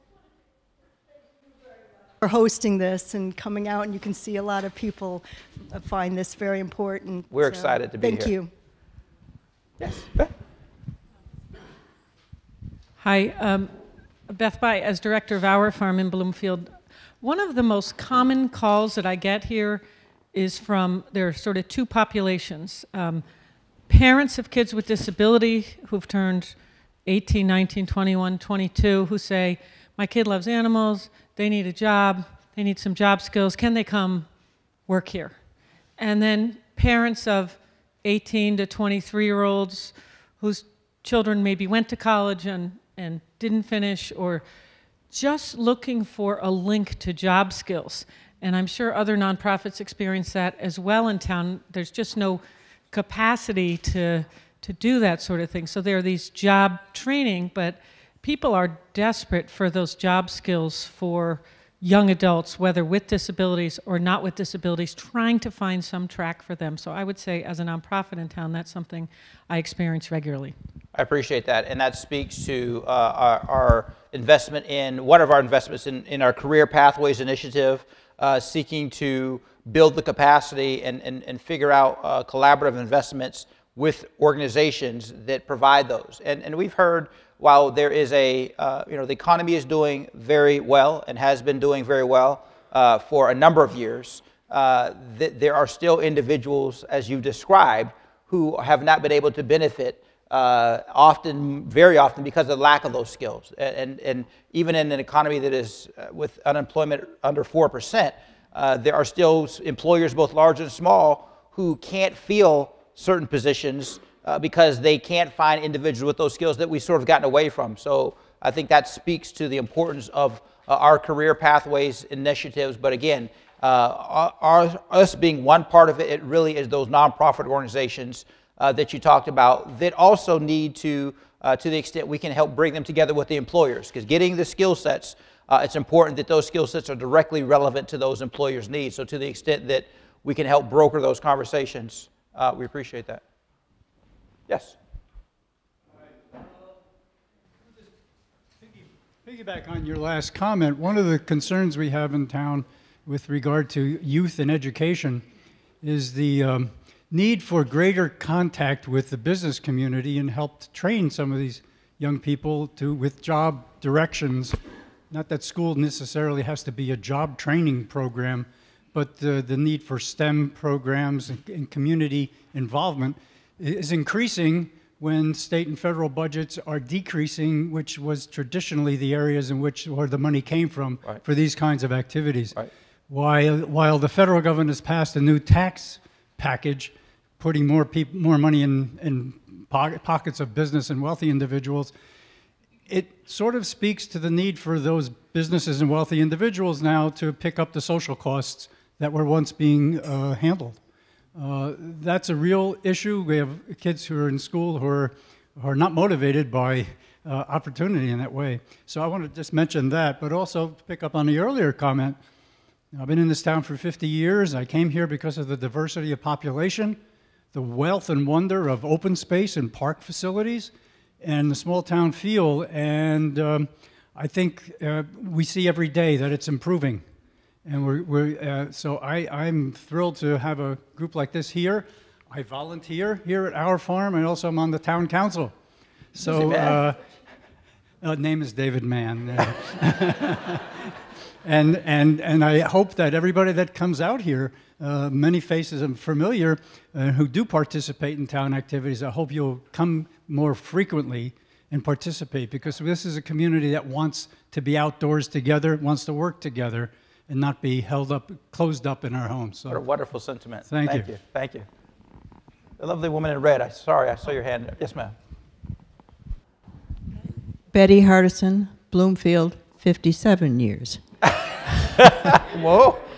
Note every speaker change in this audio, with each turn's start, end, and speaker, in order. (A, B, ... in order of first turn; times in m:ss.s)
0:02.2-0:08.5 A
0:07.3-0:08.3 B
0:09.8-0:10.3 B
0:13.0-0:13.7 C
0:14.3-0:23.2 C
0:23.9-0:34.3 C
0:34.9-0:35.4 C
0:36.0-0:44.4 C
0:45.1-1:10.6 C
1:10.9-2:23.2 B
2:24.5-2:24.8 B
2:29.2-2:35.2 D
2:35.8-2:44.6 D
2:45.1-3:11.9 D
3:12.9-3:20.8 D
3:21.3-3:32.2 D
3:32.9-3:37.0 D
3:37.5-3:47.0 D
3:47.6-3:55.5 D
3:56.1-3:57.0 D
3:56.2-3:56.8 B
3:58.0-4:00.7 D
4:01.4-4:19.8 D
4:19.7-4:21.6 B
4:20.7-4:21.1 D
4:22.8-4:25.1 B
4:27.7-4:31.0 E
4:32.0-4:33.0 B